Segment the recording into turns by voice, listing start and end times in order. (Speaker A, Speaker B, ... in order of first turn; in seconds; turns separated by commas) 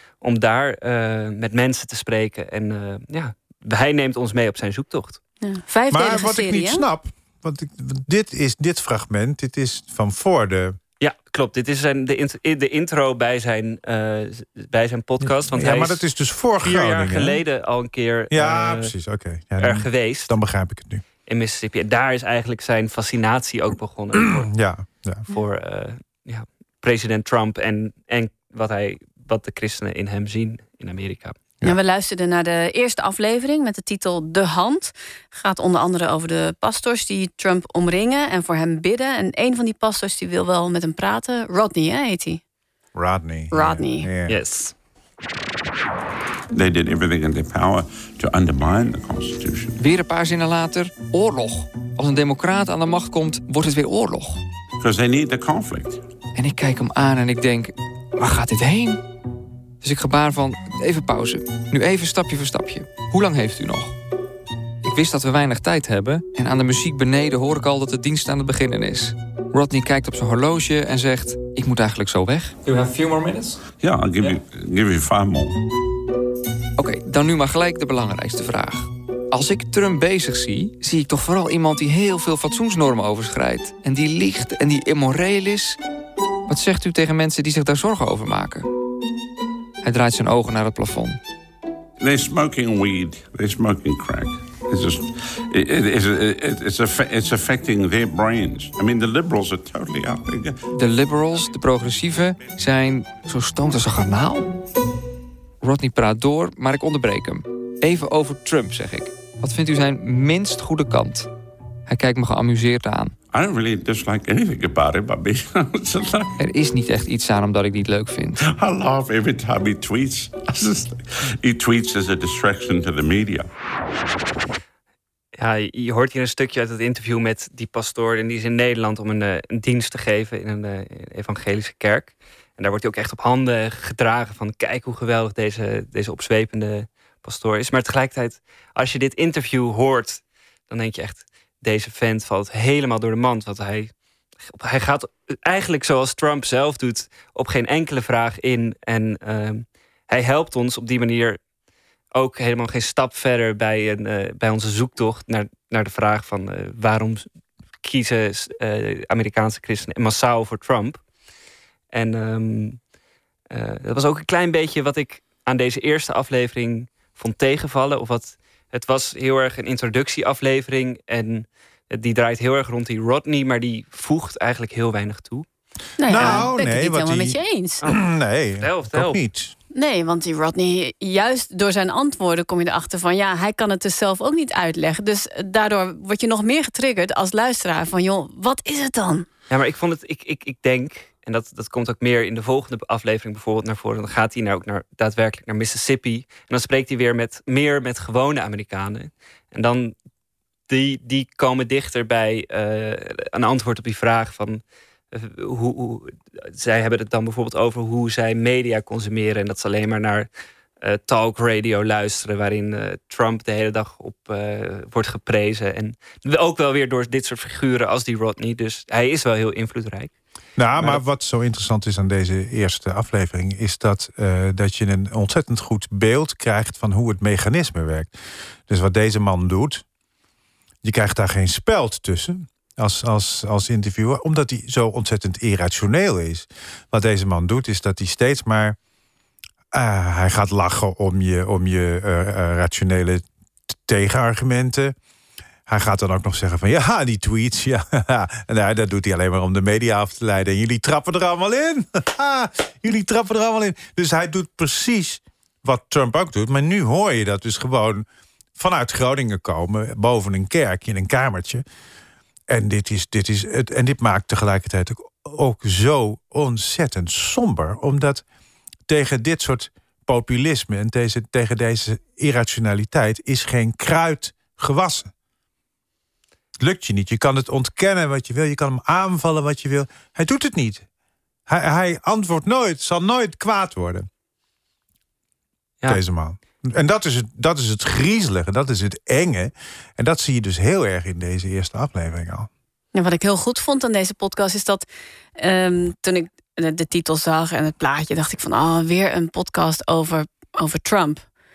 Speaker A: 0.2-5.2, Speaker B: 5.4-6.9, Speaker C: 5.9-10.8, Speaker A: 11.0-16.1, Speaker C: 15.2-17.4, Speaker A: 16.6-18.9, Speaker C: 18.3-21.0, Speaker A: 19.6-20.4, Speaker A: 21.3-24.5, Speaker C: 24.1-25.3, Speaker A: 25.3-31.4, Speaker B: 31.6-42.4, Speaker C: 43.0-44.4, Speaker B: 43.5-44.1, Speaker A: 44.3-44.7, Speaker D: 46.5-49.8, Speaker E: 49.8-54.4, Speaker D: 54.8-56.0, Speaker E: 56.4-59.0, Speaker E: 59.8-63.9, Speaker E: 64.8-73.6, Speaker D: 73.8-75.6, Speaker E: 76.8-85.8, Speaker E: 86.5-88.7, Speaker E: 89.8-91.2, Speaker D: 92.0-100.6, Speaker E: 100.7-104.5, Speaker E: 105.6-111.3, Speaker E: 111.9-113.1, Speaker D: 113.3-116.4, Speaker E: 116.4-118.4, Speaker D: 118.4-123.5, Speaker A: 125.3-151.4, Speaker A: 152.1-157.3, Speaker A: 157.8-161.0, Speaker A: 161.9-162.8, Speaker A: 163.5-175.5, Speaker B: 176.0-177.8, Speaker C: 176.1-179.5, Speaker A: 176.2-176.5, Speaker A: 178.6-179.2, Speaker B: 179.7-189.3, Speaker A: 189.5-199.9, Speaker A: 200.7-220.1, Speaker C: 220.6-228.1, Speaker A: 220.8-221.0, Speaker C: 228.7-229.8, Speaker C: 230.8-238.8, Speaker C: 239.7-243.2, Speaker C: 243.9-244.9, Speaker C: 245.7-258.1, Speaker C: 258.6-261.6, Speaker C: 262.5-268.2, Speaker C: 268.9-275.1, Speaker C: 276.6-280.9, Speaker C: 281.5-284.1, Speaker C: 285.9-292.5, Speaker B: 292.9-294.9, Speaker B: 295.4-301.2